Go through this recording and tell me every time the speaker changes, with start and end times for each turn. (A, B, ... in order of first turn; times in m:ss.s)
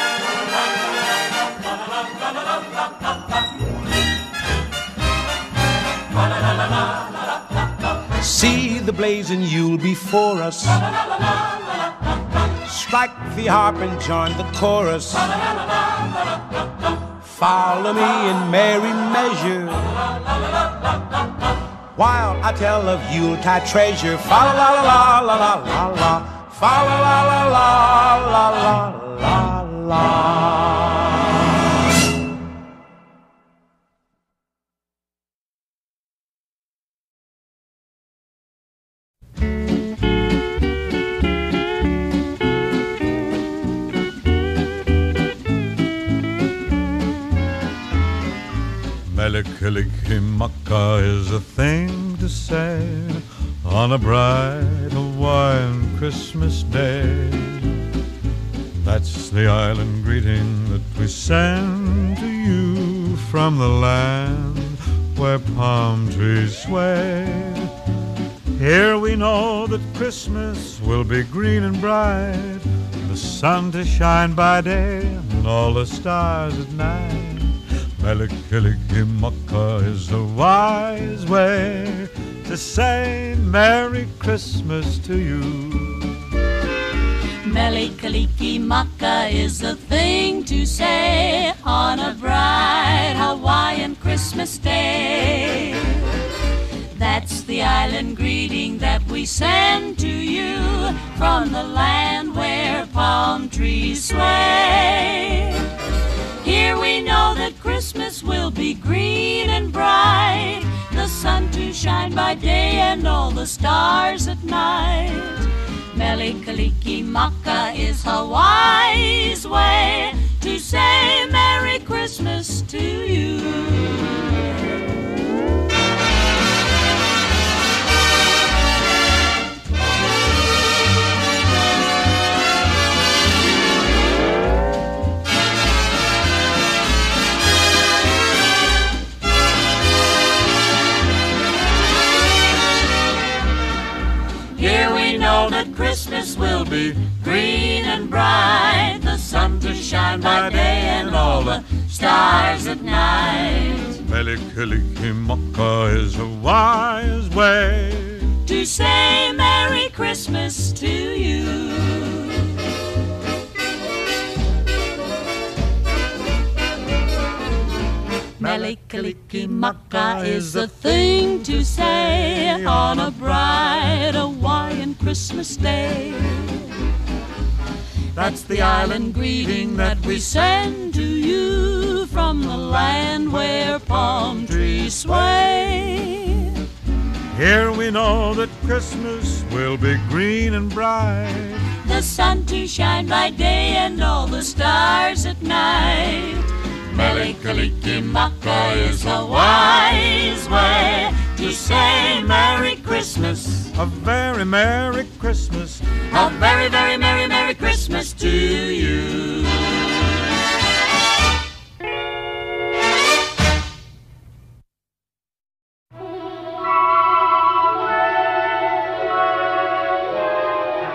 0:08.2-0:10.8 A
0:12.6-0:15.3 A
0:17.2-0:19.9 A
0:21.9-0:31.1 A
0:49.0-0:57.8 B
0:58.8-1:07.7 B
1:08.6-1:26.2 B
1:27.4-1:36.1 C
1:36.9-1:45.6 C
1:46.4-2:04.5 C
2:24.6-2:34.0 C
2:29.9-2:31.8 B
2:34.0-2:38.4 B
2:38.4-2:42.5 C
2:48.4-2:54.0 B
2:48.4-2:56.7 C
2:58.1-3:00.3 B
2:58.2-3:06.6 C
3:02.6-3:05.8 B
3:07.3-3:11.7 B
3:11.8-3:23.7 C
3:16.9-3:20.4 B
3:23.7-3:25.9 B
3:26.1-3:30.0 C